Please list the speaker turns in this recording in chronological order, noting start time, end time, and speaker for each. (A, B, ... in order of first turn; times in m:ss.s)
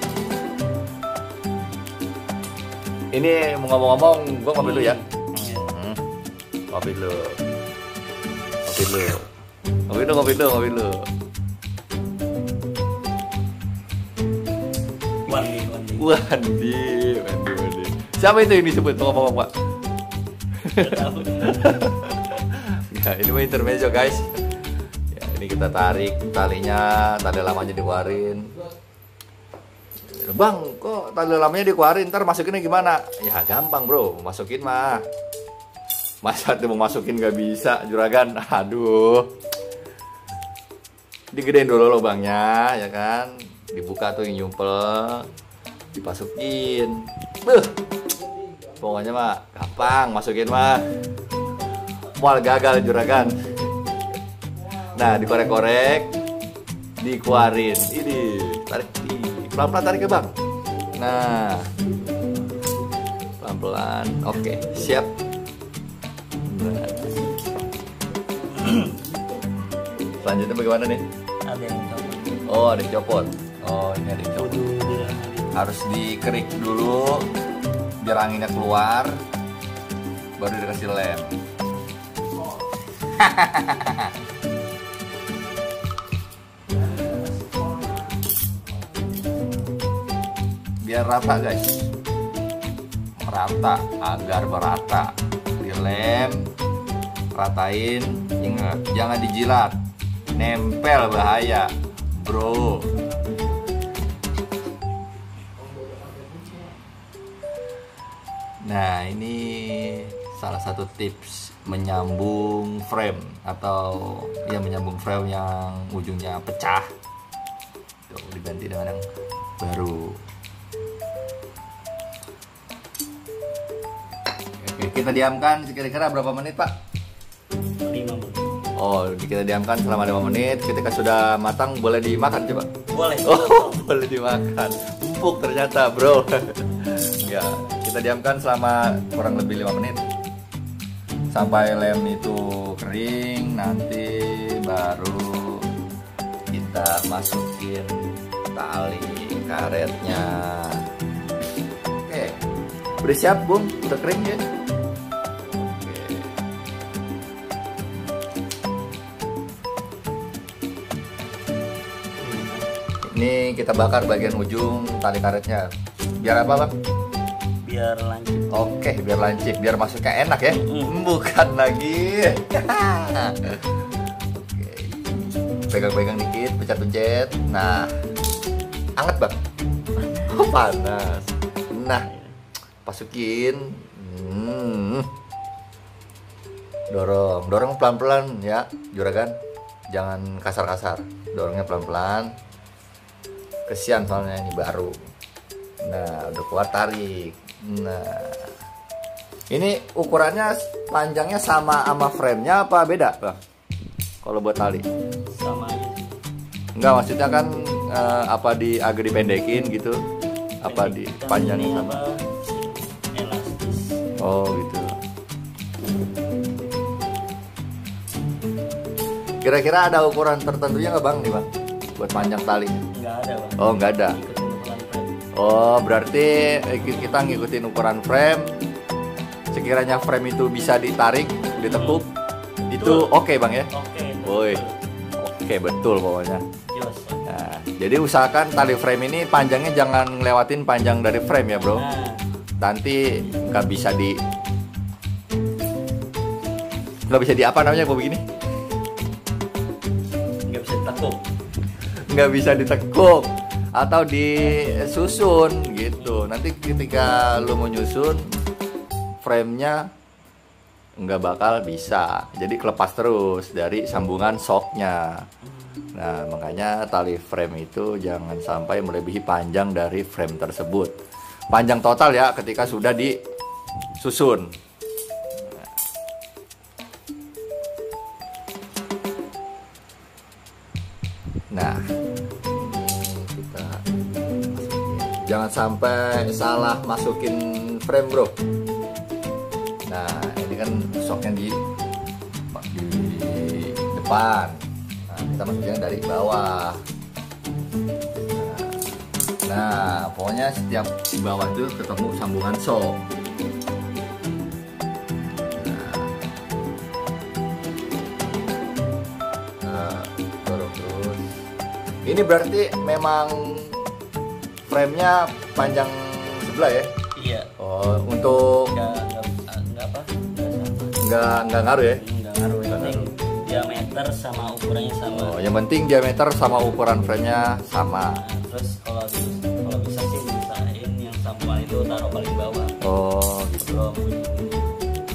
0:03.1-0:06.0 A
0:04.6-0:05.6 B
0:06.7-0:07.4 A
0:08.6-0:09.2 A
0:09.9-0:11.0 A
0:15.2-0:16.1 B
0:16.0-0:19.5 A
0:20.6-0:24.3 A
0:20.7-0:21.9 B
0:25.1-0:28.5 A
0:30.1-0:35.0 A
0:36.2-0:39.3 A
0:41.3-0:45.3 A
0:45.9-0:47.7 A
0:48.8-0:50.8 A
0:52.2-0:53.5 A
0:54.8-0:56.1 A
0:57.0-1:00.3 A
1:00.9-1:01.8 A
1:03.4-1:05.1 A
1:06.4-1:07.2 A
1:08.4-1:09.0 B
1:10.2-1:11.0 A
1:11.4-1:12.5 B
1:12.5-1:17.3 A
1:14.4-1:15.6 B
1:18.0-1:19.2 A
1:20.4-1:21.3 A
1:23.1-1:24.1 A
1:30.8-1:31.9 A
1:33.2-1:36.5 A
1:37.3-1:39.8 A
1:40.3-1:43.0 A
1:48.6-1:56.9 A
1:58.1-1:59.0 A
1:59.6-2:00.2 A
2:04.6-2:06.8 A
2:07.8-2:08.6 B
2:08.8-2:12.7 A
2:12.9-2:13.8 B
2:13.2-2:20.0 A
2:21.3-2:25.7 A
2:26.5-2:30.8 A
2:32.0-2:32.4 A
2:33.0-2:34.4 A
2:35.4-2:36.4 A
2:42.2-2:42.7 B
2:43.0-2:45.7 A
2:46.2-2:46.7 A
2:47.6-2:48.6 B
2:48.5-2:57.9 A
2:50.5-2:51.0 B
2:59.0-2:59.3 A
3:00.2-3:02.1 A
3:01.9-3:02.4 B
3:02.8-3:05.1 A
3:06.9-3:09.4 A
3:09.9-3:12.3 A
3:13.7-3:15.0 A
3:15.8-3:18.6 A
3:19.5-3:23.4 A
3:24.2-3:24.8 A
3:25.3-3:26.2 B
3:26.8-3:30.0 A
3:30.6-3:32.0 A
3:30.6-3:34.0 B
3:34.2-3:35.0 A
3:39.4-3:42.8 A
3:42.9-3:45.2 B
3:43.6-3:44.2 A
3:45.3-3:48.7 A
3:46.8-3:47.4 B
3:49.5-3:52.1 A
3:51.5-3:52.0 B
3:52.7-3:53.7 A
3:52.7-3:53.1 B
3:53.7-3:54.8 B
3:54.2-3:54.6 A
3:55.2-3:56.4 A
3:56.7-3:57.3 B
3:57.2-4:01.8 A
4:01.5-4:02.2 B
4:02.6-4:04.2 A
4:07.1-4:08.2 A
4:10.5-4:11.2 B
4:12.1-4:18.2 A
4:16.0-4:16.3 B
4:19.2-4:19.9 A
4:21.0-4:25.2 A
4:25.4-4:25.9 B
4:25.9-4:30.9 A
4:31.5-4:33.2 A
4:34.0-4:34.5 A
4:41.5-4:41.8 A
4:42.4-4:48.3 A
4:49.9-4:51.6 A
4:52.5-4:56.8 A
4:58.3-5:03.0 A
5:05.6-5:06.2 A
5:09.6-5:11.4 A
5:12.0-5:13.9 A
5:14.7-5:16.9 A
5:17.2-5:17.5 B
5:17.6-5:18.7 A
5:18.7-5:21.0 B
5:21.0-5:22.0 A
5:22.0-5:25.4 B
5:22.7-5:23.1 A
5:25.1-5:28.2 A
5:28.0-5:32.8 B
5:32.8-5:33.8 A
5:33.6-5:34.8 B